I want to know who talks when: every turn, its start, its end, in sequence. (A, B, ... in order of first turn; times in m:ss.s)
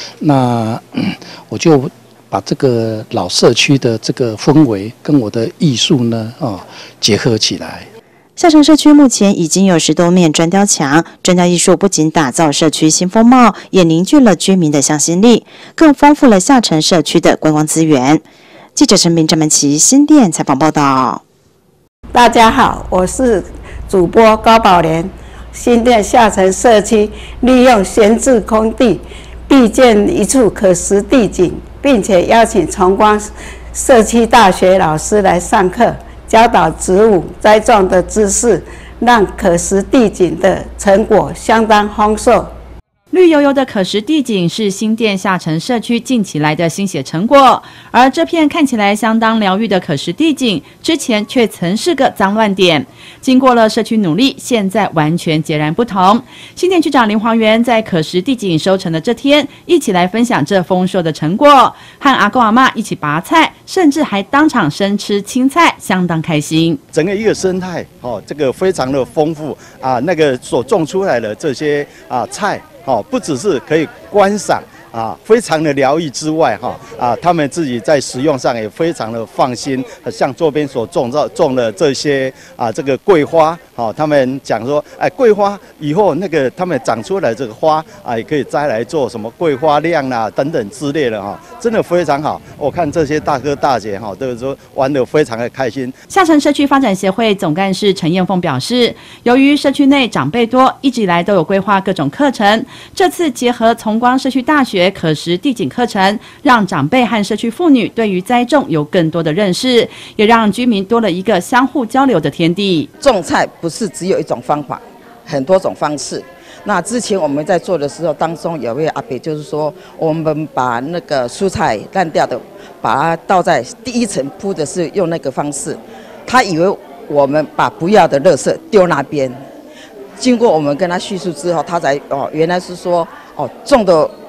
0:00.2-0:07.9 A
0:08.4-0:21.2 B
0:22.1-0:42.5 C
0:43.1-1:06.8 D
1:06.9-1:36.0 E
1:36.1-1:52.9 D
1:53.0-2:09.4 F
2:10.2-2:14.1 F